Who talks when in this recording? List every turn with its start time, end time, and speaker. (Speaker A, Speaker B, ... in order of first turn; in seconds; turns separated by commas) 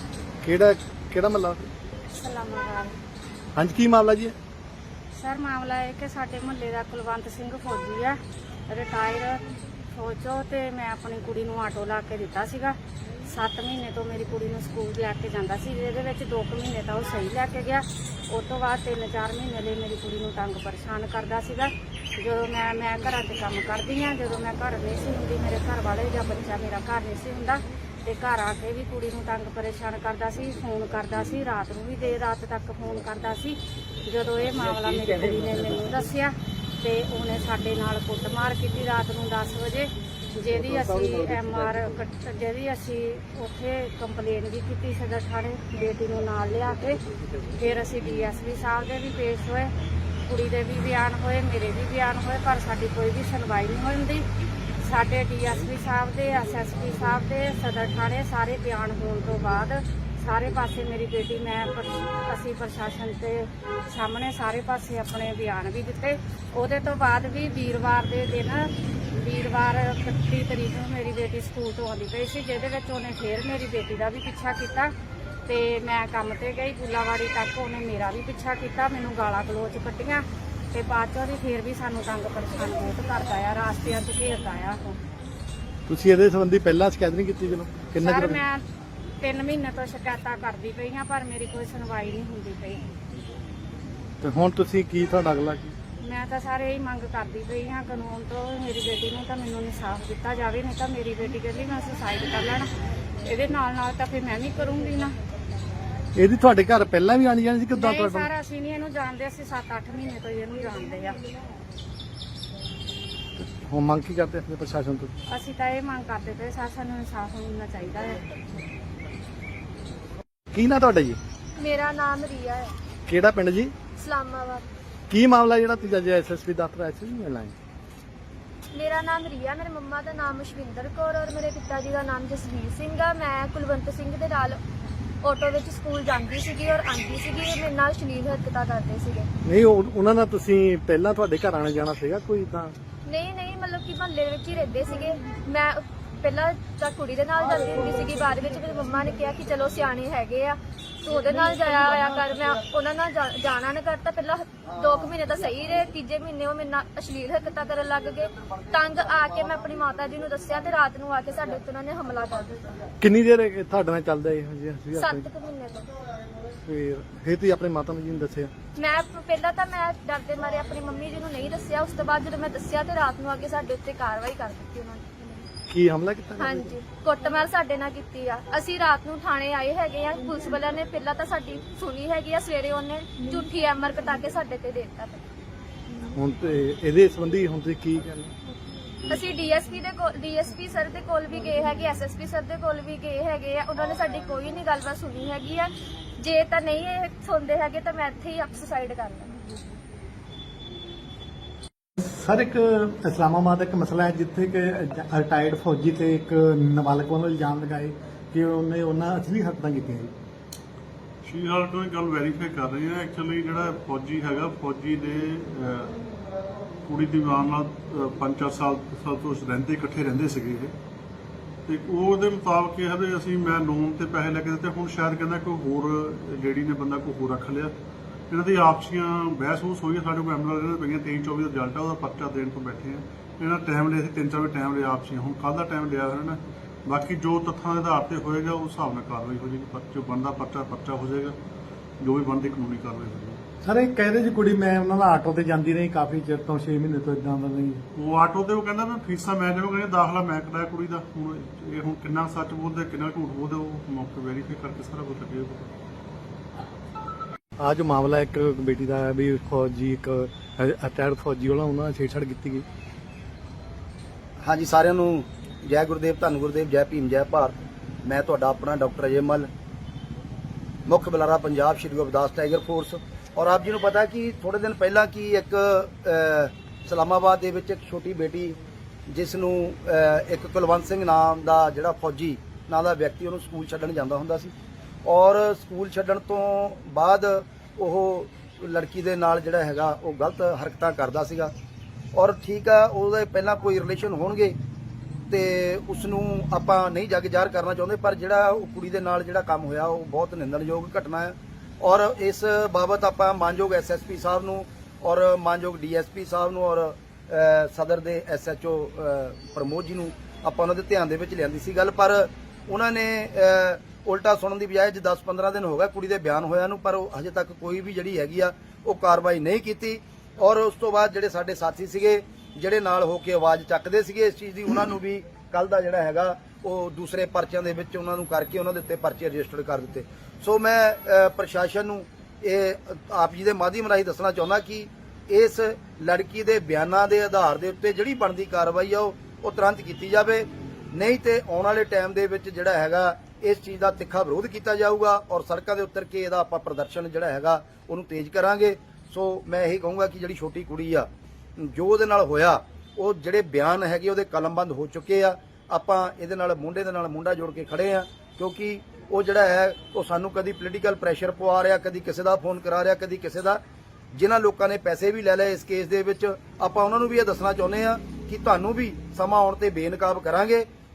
Speaker A: 0.4-1.7, Speaker B: 2.1-3.0, Speaker A: 3.6-4.3, Speaker B: 5.2-8.2, Speaker B: 8.7-49.7, Speaker B: 50.2-54.3, Speaker B: 54.8-74.9, Speaker B: 75.5-85.0, Speaker A: 85.9-88.4, Speaker B: 88.0-88.6, Speaker B: 89.2-92.9, Speaker A: 94.2-95.8, Speaker B: 96.0-102.7, Speaker B: 103.2-105.1, Speaker A: 106.1-108.3, Speaker B: 107.7-111.2, Speaker A: 113.4-115.1, Speaker B: 115.3-118.2, Speaker A: 120.5-121.2, Speaker C: 121.5-122.7, Speaker A: 123.1-123.7, Speaker C: 124.0-124.6, Speaker A: 125.1-127.5, Speaker C: 128.7-134.6, Speaker C: 135.2-139.3, Speaker A: 139.4-142.8, Speaker C: 143.1-162.7, Speaker A: 163.0-165.3, Speaker C: 165.0-165.9, Speaker A: 166.6-168.5, Speaker C: 168.8-175.5, Speaker A: 175.7-176.7, Speaker C: 176.4-185.2, Speaker A: 186.1-188.3, Speaker C: 189.1-199.4, Speaker A: 202.0-210.1, Speaker D: 211.2-216.0, Speaker D: 216.9-220.7, Speaker D: 221.7-227.7, Speaker D: 228.3-241.4, Speaker D: 242.0-243.4, Speaker A: 243.6-247.8, Speaker D: 247.9-255.7, Speaker A: 257.6-262.7, Speaker E: 264.4-269.5, Speaker E: 270.9-278.6, Speaker E: 279.1-284.5, Speaker E: 285.1-291.5, Speaker E: 292.1-294.6, Speaker E: 295.3-363.6, Speaker E: 364.1-370.7